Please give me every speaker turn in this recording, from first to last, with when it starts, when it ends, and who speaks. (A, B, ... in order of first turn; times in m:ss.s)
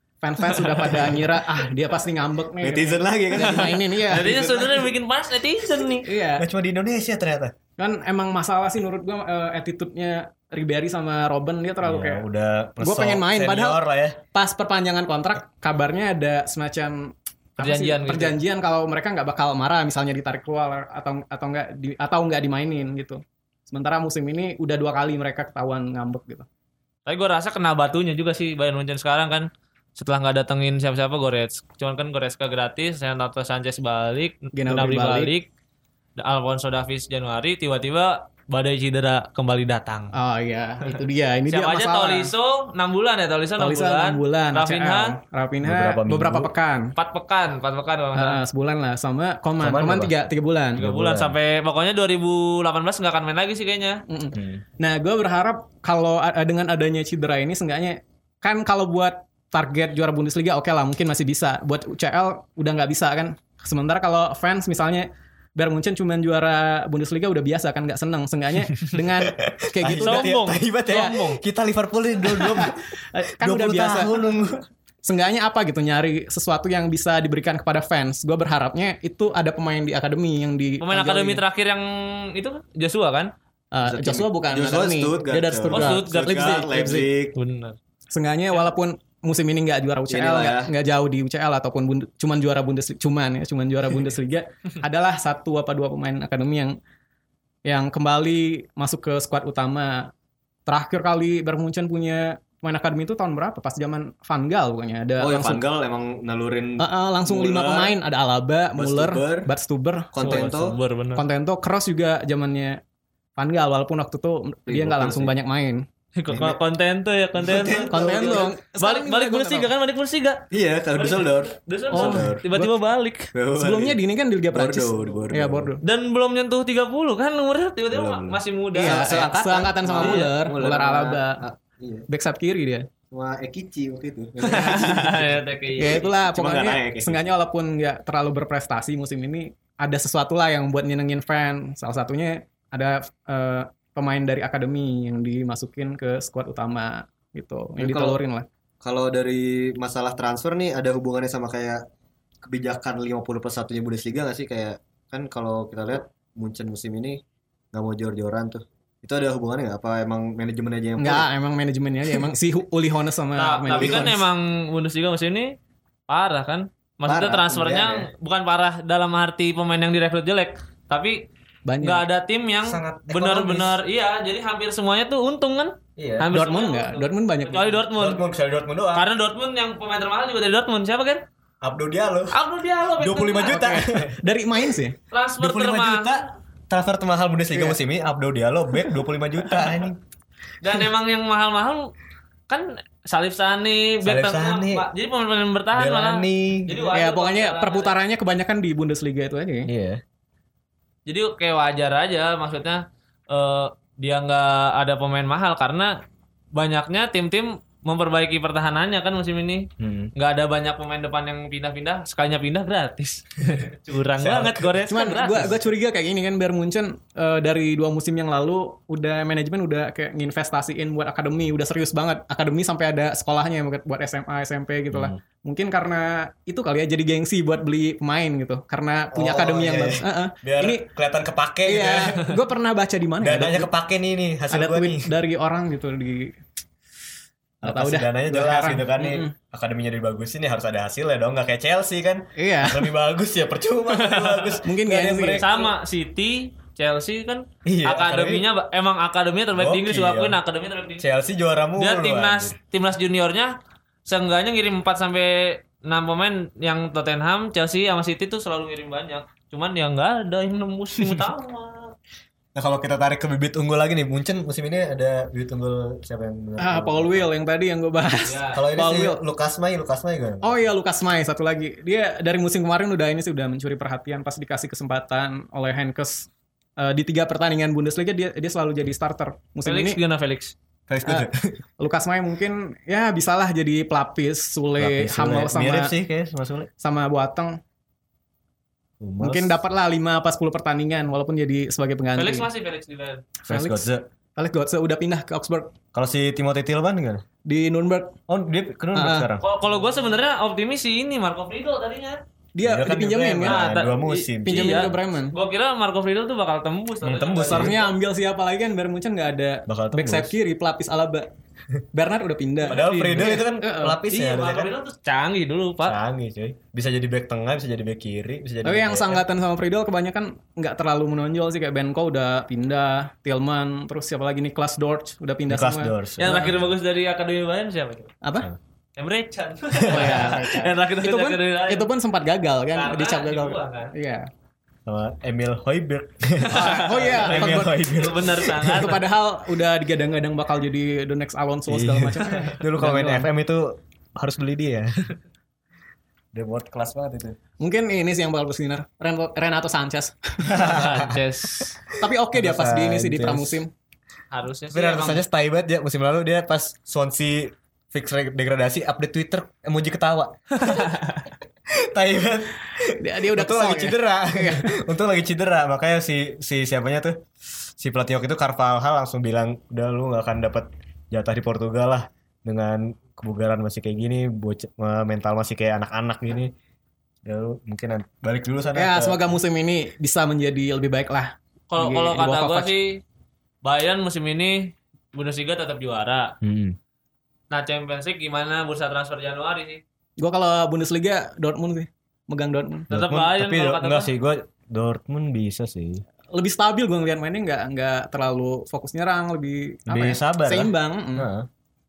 0:00.2-0:04.6 A
0:02.6-0:04.9 B
0:03.4-0:06.1 C
0:06.0-0:06.4 A
0:06.4-0:07.5 B
0:07.8-0:12.2 A
0:11.8-0:14.2 B
0:12.8-0:13.8 A
0:14.3-0:26.4 A
0:17.6-0:18.4 C
0:27.0-0:35.5 C
0:34.5-0:35.3 A
0:36.2-0:40.1 C
0:40.1-0:42.3 A
0:40.9-0:45.2 C
0:43.6-0:46.9 A
0:45.6-0:46.5 B
0:47.0-0:48.4 C
0:48.1-0:50.8 A
0:49.6-0:50.1 B
0:50.8-0:51.3 B
0:50.8-0:54.0 C
0:54.1-1:10.9 A
0:54.3-0:54.6 B
1:08.7-1:14.6 B
1:09.9-1:11.4 C
1:12.2-1:14.1 A
1:15.0-1:21.4 A
1:20.8-1:23.3 C
1:23.7-1:27.1 A
1:23.8-1:27.4 B
1:25.7-1:26.7 C
1:27.3-1:27.8 C
1:28.1-1:36.8 A
1:30.1-1:30.7 B
1:37.6-1:40.1 A
1:40.7-1:45.6 A
1:45.2-1:48.0 B
1:46.8-1:50.5 A
1:48.8-1:49.5 B
1:50.1-1:50.8 B
1:50.2-1:51.2 C
1:51.2-1:52.8 A
1:53.4-1:55.8 A
1:54.7-1:55.3 B
1:56.2-2:03.3 C
1:56.3-1:56.6 B
1:57.4-1:58.5 B
1:57.9-1:59.7 A
2:00.5-2:02.4 B
2:01.9-2:02.8 A
2:03.3-2:04.0 B
2:03.6-2:05.8 A
2:04.5-2:05.7 B
2:05.8-2:10.4 C
2:07.9-2:12.1 B
2:08.7-2:11.4 A
2:12.1-2:12.9 A
2:13.1-2:17.3 B
2:14.4-2:16.0 C
2:15.8-2:28.4 A
2:27.8-2:28.2 B
2:28.8-2:31.8 B
2:32.4-2:37.2 B
2:37.7-2:41.3 B
2:41.0-2:44.2 A
2:43.4-2:45.5 C
2:43.7-2:44.2 B
2:46.1-2:51.2 C
2:47.0-2:48.1 B
2:51.7-2:52.0 A
2:51.8-2:58.2 C
2:52.6-2:53.8 B
2:56.0-2:56.3 B
2:56.3-2:57.8 A
2:57.9-2:59.1 B
2:58.9-3:01.2 C
3:01.6-3:02.4 B
3:02.3-3:03.6 C
3:03.0-3:04.2 B
3:03.5-3:05.0 A
3:05.1-3:06.2 C
3:05.4-3:10.0 B
3:10.6-3:11.9 C
3:12.5-3:17.9 C
3:14.0-3:14.8 B
3:15.7-3:16.8 B
3:16.9-3:19.7 A
3:19.6-3:20.0 B
3:21.1-3:26.0 C
3:26.5-3:35.5 C
3:29.8-3:30.1 B
3:34.2-3:34.8 B
3:34.9-3:50.8 A
3:44.9-3:45.2 B
3:49.1-3:52.3 B
3:51.6-3:53.7 A
3:53.2-3:55.1 B
3:54.5-3:56.3 A
3:57.6-4:05.6 B
3:57.6-3:59.3 A
4:02.4-4:02.9 A
4:03.9-4:04.6 C
4:04.6-4:05.7 A
4:05.4-4:11.0 C
4:07.6-4:08.5 B
4:09.5-4:10.4 B
4:11.0-4:12.6 B
4:11.8-4:13.5 C
4:14.0-4:21.9 C
4:22.5-4:27.3 B
4:26.6-4:29.2 A
4:28.2-4:28.6 C
4:28.5-4:30.6 B
4:30.4-4:40.0 A
4:39.6-4:40.5 C
4:40.9-4:41.6 B
4:41.8-4:45.9 A
4:44.8-4:46.7 B
4:46.8-4:47.6 A
4:49.0-4:49.6 B
4:49.2-4:52.5 A
4:52.2-4:53.3 C
4:53.4-4:54.0 B
4:53.5-4:53.8 A
4:54.4-4:55.7 A
4:55.9-4:57.2 B
4:57.4-4:58.2 A
4:58.3-4:59.5 B
4:58.9-4:59.3 A
4:59.4-5:02.2 C
5:02.5-5:03.6 A
5:02.6-5:04.9 B
5:03.4-5:07.8 C
5:04.4-5:05.3 A
5:07.0-5:07.8 B
5:07.5-5:11.3 A
5:09.7-5:10.3 B
5:11.9-5:14.0 A
5:12.7-5:14.7 B
5:12.7-5:13.4 C
5:14.1-5:16.0 C
5:15.8-5:19.2 B
5:18.6-5:26.5 A
5:25.5-5:26.4 B
5:26.2-5:28.1 C
5:28.2-5:28.5 A
5:29.0-5:31.9 C
5:29.8-5:30.3 B
5:29.9-5:34.3 A
5:32.7-5:33.9 C
5:34.8-5:38.9 B
5:36.5-5:39.1 C
5:36.5-5:37.9 A
5:38.6-5:43.3 A
5:41.7-5:45.0 B
5:46.3-5:47.4 B
5:47.6-5:50.7 A
5:50.4-5:53.6 B
5:50.6-5:51.8 C
5:52.0-5:53.7 A
5:54.3-5:55.2 C
5:54.7-6:01.0 B
6:00.6-6:01.2 C
6:01.7-6:07.2 B
6:02.9-6:04.7 A
6:07.8-6:16.5 B
6:17.2-6:19.2 B
6:18.7-6:22.7 A
6:21.7-6:23.0 C
6:23.6-6:26.3 C
6:26.4-6:26.8 B
6:27.5-6:29.8 C
6:30.2-6:32.9 A
6:32.9-6:36.0 B
6:32.9-6:34.1 C
6:36.3-6:41.3 A
6:39.9-6:41.5 B